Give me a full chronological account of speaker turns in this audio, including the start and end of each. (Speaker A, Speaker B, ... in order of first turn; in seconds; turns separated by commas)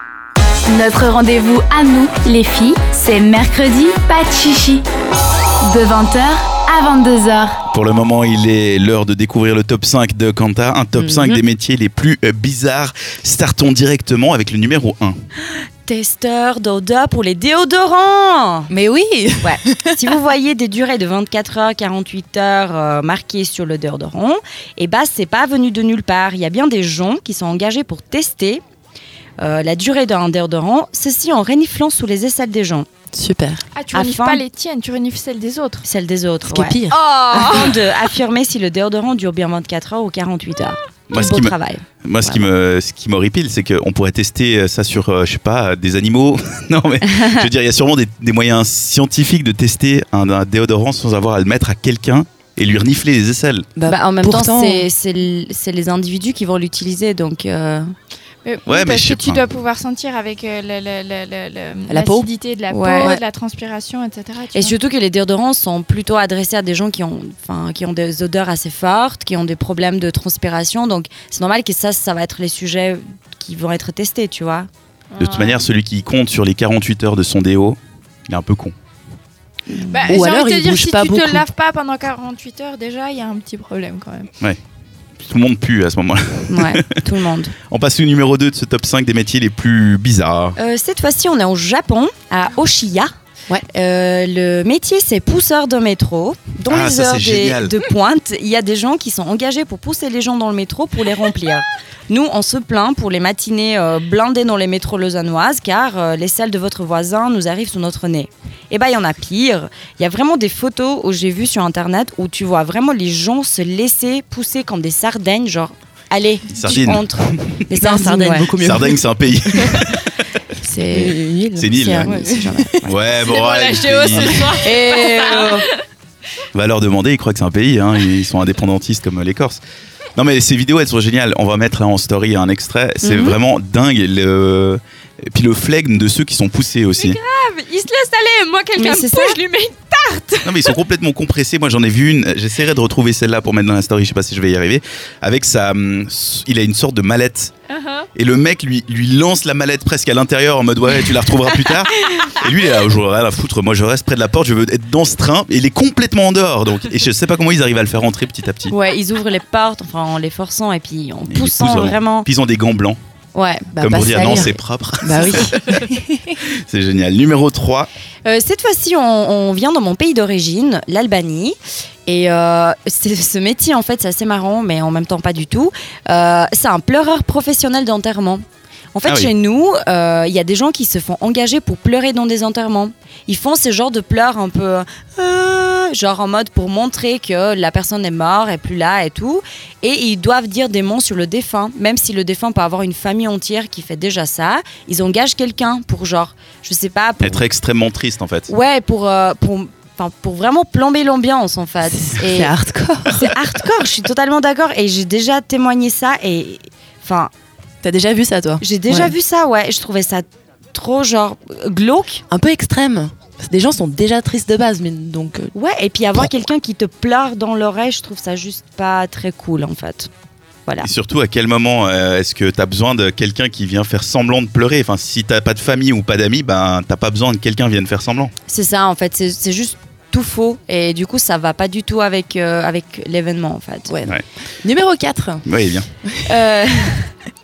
Speaker A: 0.9-4.8, Speaker A: 5.7-7.4, Speaker B: 7.7-15.2, Speaker C: 11.0-11.4, Speaker C: 15.8-18.7, Speaker D: 18.7-20.2, Speaker C: 19.4-28.6, Speaker C: 29.4-32.9, Speaker D: 33.1-33.6, Speaker E: 33.8-35.8, Speaker C: 33.9-34.4, Speaker C: 35.8-42.5, Speaker D: 36.5-37.0, Speaker E: 37.1-37.7, Speaker B: 41.1-53.7, Speaker C: 47.1-47.4, Speaker D: 53.8-54.9, Speaker C: 53.8-57.9, Speaker E: 58.4-64.8, Speaker B: 58.7-59.4, Speaker D: 61.9-62.3, Speaker C: 62.7-63.2, Speaker C: 64.5-74.7, Speaker E: 75.1-75.7, Speaker B: 75.2-78.7, Speaker C: 79.7-80.1, Speaker E: 79.9-84.3, Speaker D: 80.1-81.5, Speaker B: 85.2-87.0, Speaker C: 86.5-87.5, Speaker B: 87.7-90.6, Speaker C: 90.6-93.1, Speaker C: 93.7-118.5, Speaker B: 96.7-97.8, Speaker B: 116.5-117.0, Speaker D: 117.8-119.8, Speaker B: 118.5-120.4, Speaker D: 120.6-122.8, Speaker C: 120.6-121.2, Speaker B: 121.6-122.2, Speaker C: 121.7-123.0, Speaker B: 122.8-124.6, Speaker E: 123.1-125.7, Speaker C: 124.1-125.7, Speaker D: 124.7-125.4, Speaker B: 126.5-129.6, Speaker B: 130.2-137.2, Speaker C: 133.0-133.4, Speaker E: 137.0-140.8, Speaker C: 138.8-139.4, Speaker B: 140.4-147.5, Speaker E: 147.7-148.1, Speaker B: 148.2-158.7, Speaker C: 158.7-162.3, Speaker B: 161.3-163.0, Speaker C: 163.3-164.6, Speaker D: 163.7-166.3, Speaker B: 163.8-165.8, Speaker B: 166.5-167.9, Speaker C: 168.2-178.4, Speaker C: 178.9-197.4, Speaker B: 179.1-179.3, Speaker B: 197.2-198.5, Speaker C: 198.5-202.5, Speaker D: 201.9-203.3, Speaker C: 203.2-207.3, Speaker D: 207.8-209.2, Speaker C: 208.6-212.2, Speaker D: 212.3-215.5, Speaker C: 215.5-220.1, Speaker B: 220.8-228.3, Speaker C: 228.5-233.9, Speaker D: 233.9-235.5, Speaker B: 235.5-235.9, Speaker D: 236.0-236.6, Speaker C: 236.2-237.1